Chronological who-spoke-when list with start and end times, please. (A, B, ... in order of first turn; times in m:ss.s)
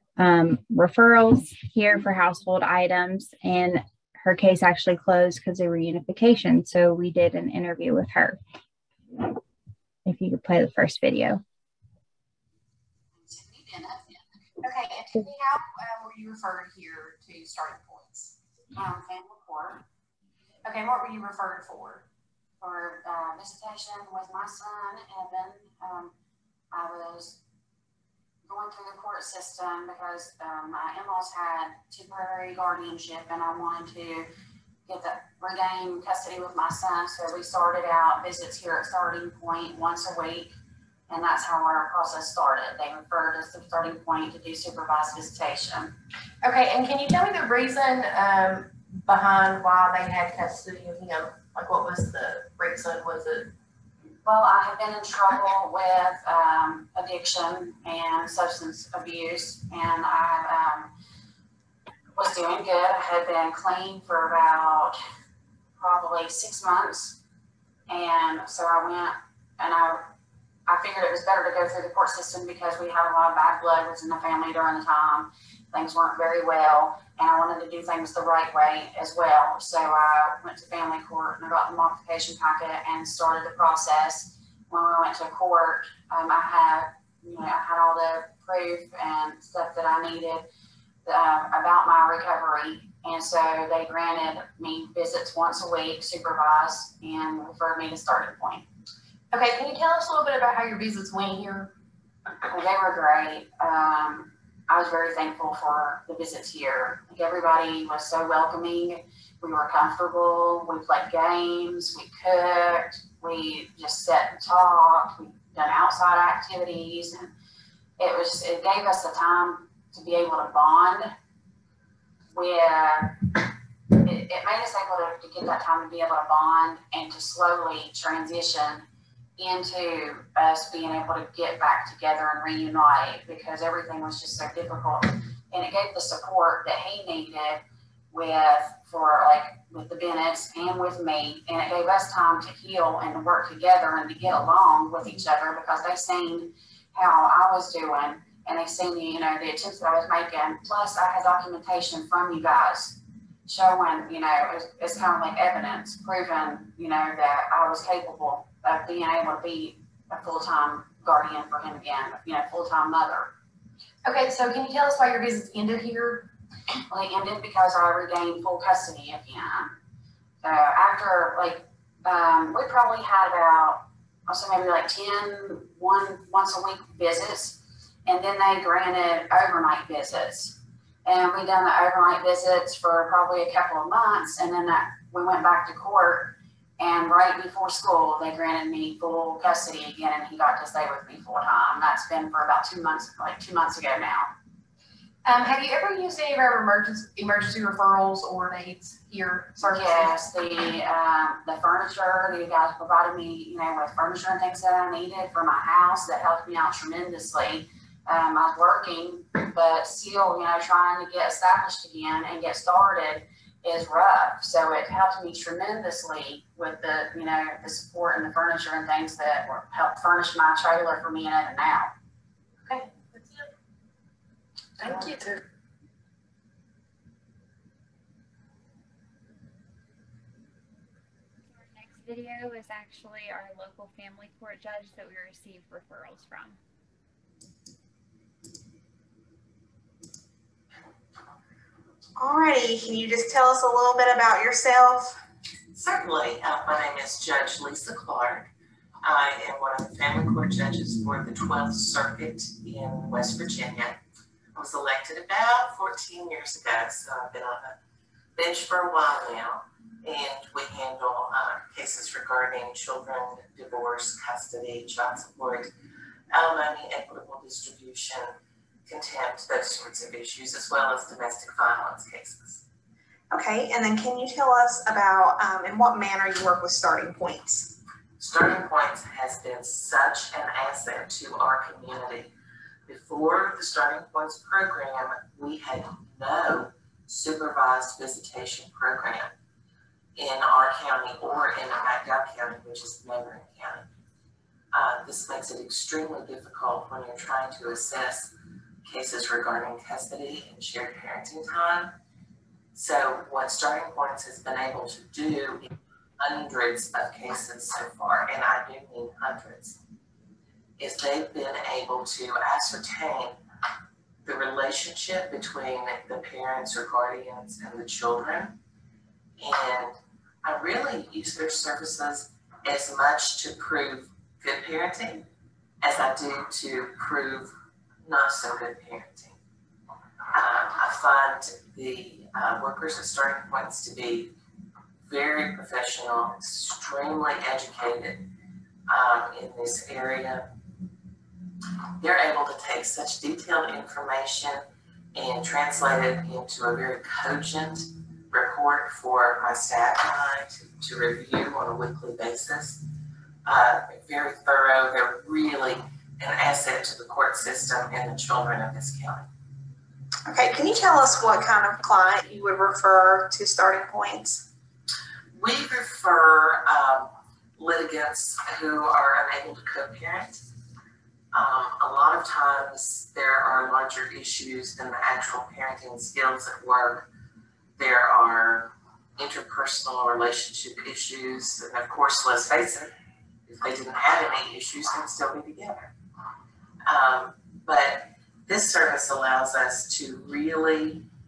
0:00.2-0:08.4 A
0:10.1-0:11.4 A
0:13.2-0:14.2 B
0:14.6-0:18.4 C
0:18.7-0:19.8 B
0:20.6-0:22.0 C
0:22.6-0:26.1 B
0:26.7-0:27.4 B
0:28.4-0:34.3 B
0:34.9-0:40.5 B
0:41.1-0:45.9 B
0:46.4-0:53.5 C
0:54.2-1:00.9 B
1:02.2-1:05.0 B
1:05.8-1:07.2 B
1:07.9-1:10.1 B
1:10.7-1:30.5 B
1:31.0-1:38.7 B
1:39.3-1:41.7 C
1:42.4-1:57.3 B
1:58.0-2:01.1 B
2:02.3-2:03.4 B
2:04.0-2:08.8 B
2:09.4-2:43.3 B
2:44.0-2:46.3 C
2:46.9-2:49.7 B
2:50.4-3:14.3 B
3:15.2-3:20.3 C
3:19.7-3:41.9 B
3:44.8-3:45.4 C
3:51.5-3:56.6 A
4:02.2-4:05.2 D
4:05.7-4:08.5 E
4:09.0-4:14.0 E
4:14.6-4:17.8 E
4:18.4-4:25.7 E
4:26.3-4:28.3 E
4:28.9-4:32.6 E
4:33.3-4:37.7 D
4:38.2-4:42.3 E
4:42.9-4:49.3 E
4:50.2-4:53.9 E
4:54.7-4:58.3 E
4:58.8-5:01.9 E
5:02.8-5:05.7 E
5:06.2-5:09.8 E
5:10.8-5:13.4 E
5:14.2-5:18.6 E
5:19.4-5:25.3 E
5:25.8-5:27.5 E
5:28.0-5:29.4 E
5:30.3-5:34.3 E
5:35.1-5:38.2 E
5:38.9-5:40.5 E
5:42.0-5:44.6 E
5:45.2-5:52.8 E
5:53.4-5:59.3 E
6:00.3-6:04.4 D
6:05.4-6:10.4 E
6:11.3-6:17.1 E
6:17.8-6:22.9 E
6:23.5-6:25.9 E
6:26.9-6:31.1 E